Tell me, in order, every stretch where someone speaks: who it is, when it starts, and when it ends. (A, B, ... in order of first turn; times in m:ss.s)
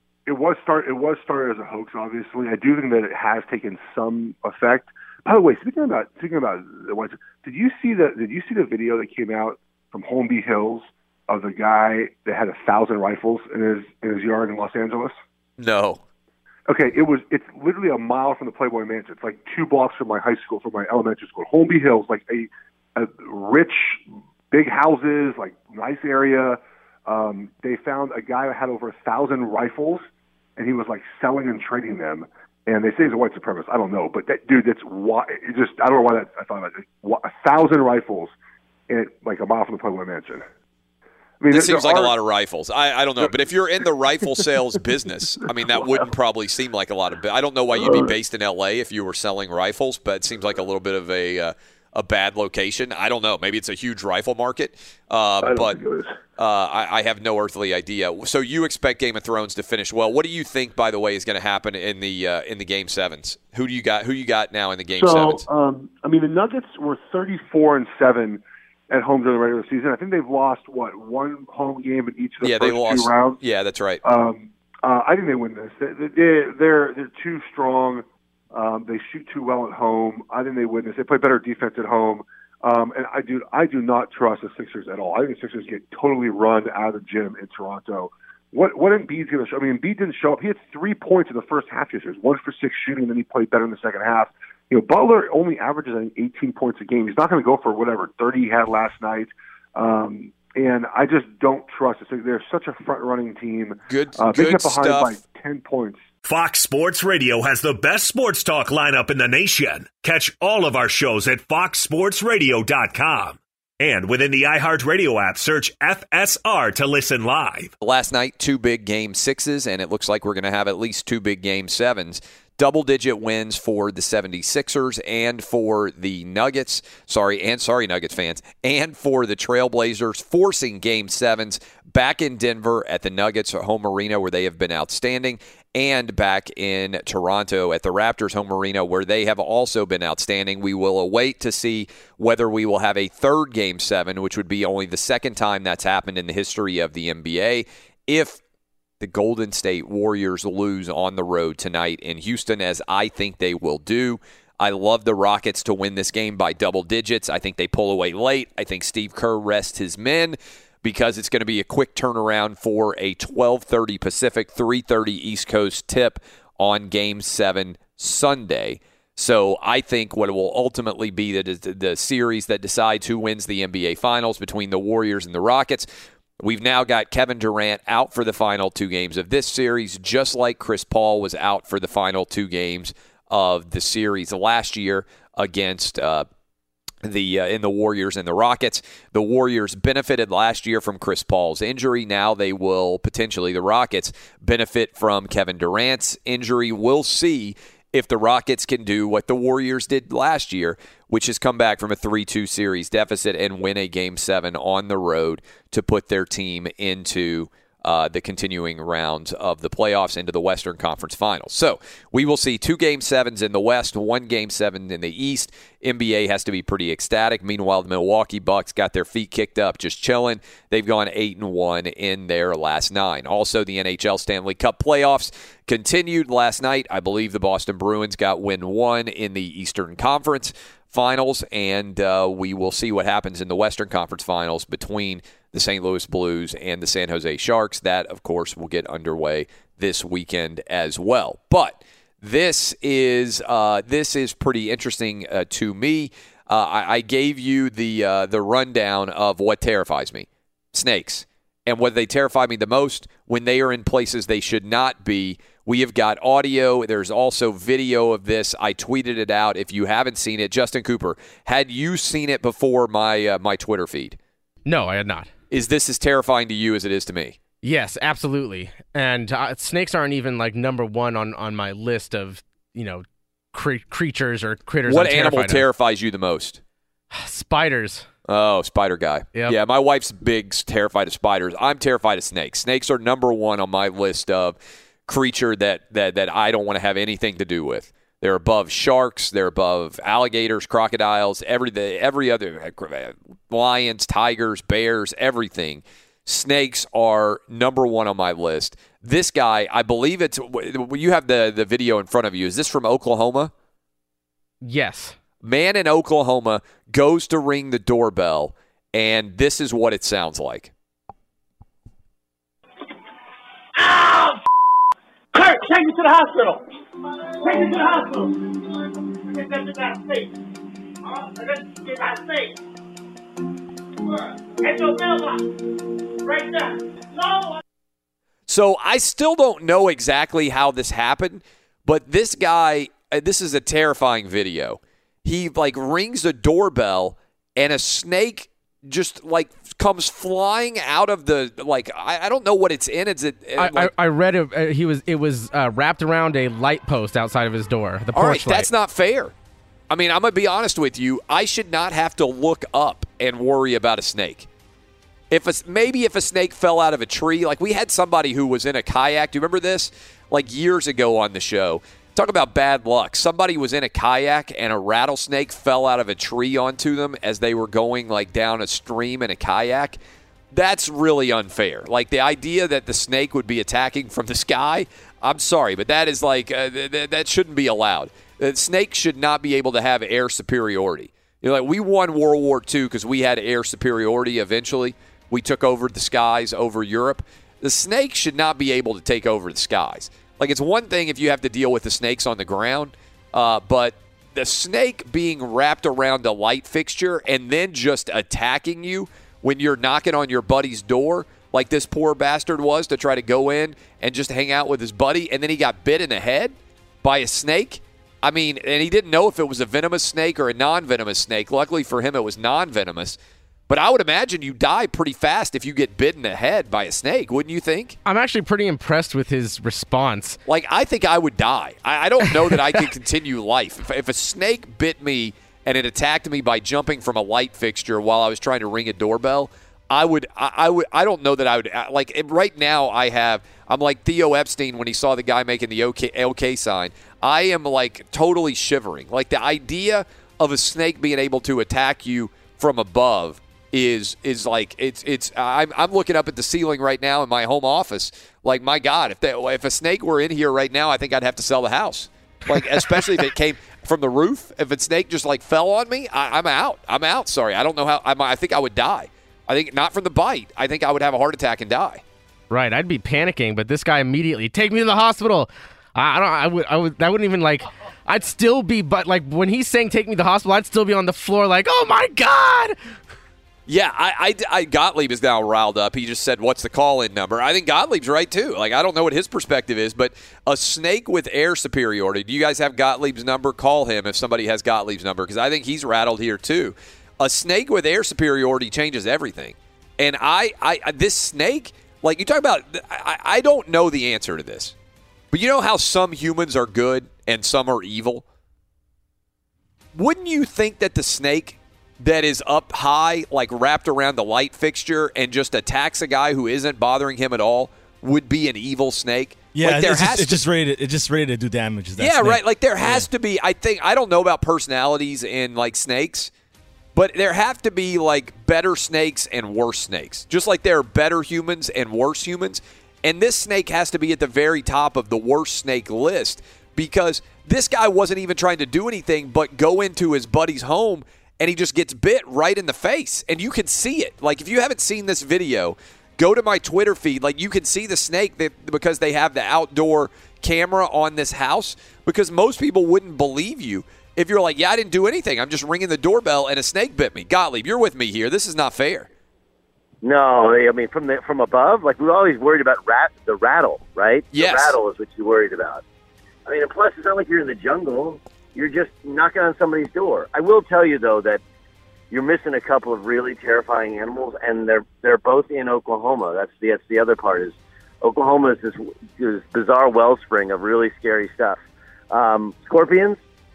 0:00.3-0:15.2 A
0:15.6-0:16.0 B
0:16.7-0:30.1 A
0:30.6-0:38.3 A
0:38.9-0:40.4 A
0:41.4-0:42.2 A
0:41.5-0:55.8 B
0:45.4-0:46.1 A
0:47.7-0:48.2 A
0:55.4-0:56.2 A
0:56.4-1:05.4 B
1:05.0-1:13.4 A
1:12.4-1:14.0 B
1:14.0-1:46.0 A
1:43.9-1:45.1 B
1:46.2-1:57.7 C
1:57.8-2:28.4 B
2:29.0-2:55.9 B
2:56.4-3:06.3 B
3:07.0-4:24.2 B
4:24.7-4:25.3 D
4:25.5-4:27.4 B
4:27.6-4:35.6 D
4:34.9-4:36.6 B
4:37.1-4:38.1 D
4:38.3-5:03.5 B
5:04.6-5:05.2 D
5:05.4-5:10.7 B
5:13.8-5:14.4 E
5:15.3-5:16.6 E
5:17.4-5:18.5 E
5:19.3-5:20.3 E
5:21.1-5:22.5 E
5:24.6-5:25.4 E
5:26.2-5:27.6 E
5:28.5-5:43.9 B
5:43.6-5:48.7 D
5:48.1-5:49.3 B
5:49.9-5:54.5 B
5:55.3-6:10.0 B
6:10.5-6:53.2 B
6:53.7-6:58.0 B
6:58.0-7:00.4 D
7:00.5-7:42.0 B
7:42.5-7:52.8 D
7:53.7-8:14.7 B
8:15.3-8:18.2 B
8:19.9-8:30.5 B
8:29.5-8:33.1 F
8:32.0-8:36.3 B
8:36.9-9:09.1 B
9:10.0-9:15.8 G
9:14.3-9:14.8 B
9:16.5-9:21.4 G
9:22.1-9:31.6 G
9:32.1-9:33.2 G